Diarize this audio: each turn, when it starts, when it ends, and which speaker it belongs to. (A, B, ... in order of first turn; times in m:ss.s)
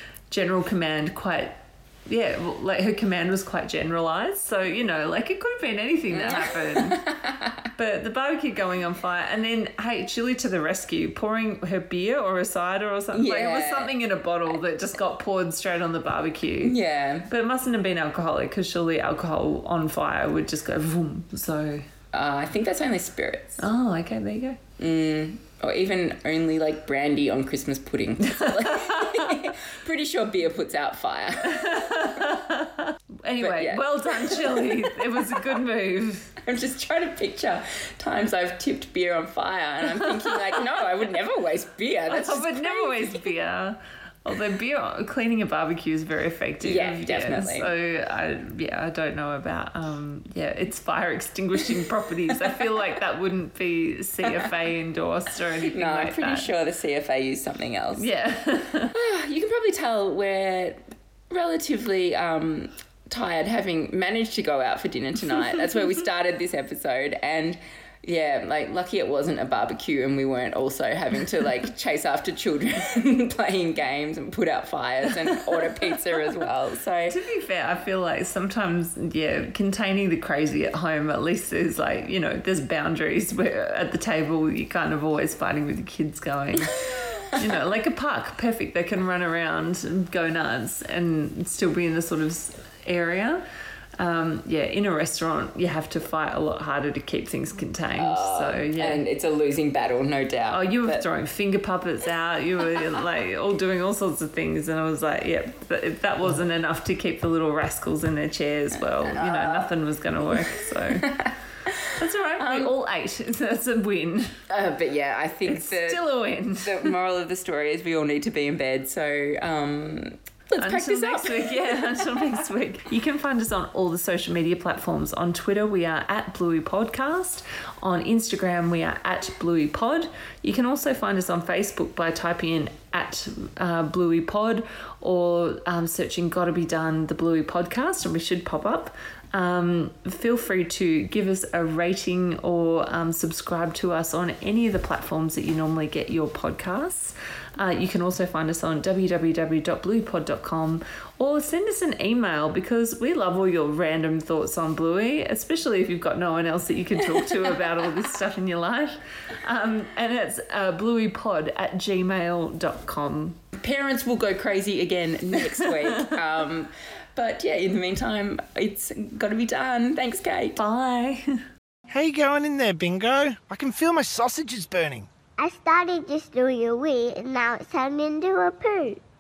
0:00.3-0:07.1 A
0:06.1-0:07.5 B
0:07.8-0:16.8 A
0:13.1-0:13.9 B
0:16.6-0:17.3 B
0:17.3-0:21.9 A
0:22.1-0:23.6 B
0:23.6-0:24.6 A
0:24.8-0:32.3 B
0:28.3-0:29.3 A
0:31.5-0:36.4 A
0:33.4-0:35.3 B
0:36.4-0:43.2 B
0:42.1-0:56.5 A
0:46.6-0:47.7 B
0:55.7-0:58.1 B
0:58.0-0:58.9 A
0:58.9-1:17.2 B
1:17.1-1:26.8 A
1:27.3-1:33.4 A
1:34.0-1:39.0 A
1:38.0-1:41.0 B
1:40.5-1:51.2 A
1:48.9-1:49.7 B
1:50.9-1:52.7 B
1:52.0-1:54.4 A
1:54.5-2:02.3 B
1:55.5-1:56.9 A
2:00.6-2:43.4 A
2:43.5-2:50.6 B
2:50.6-2:51.4 A
2:51.9-2:55.1 C
2:55.4-2:59.0 D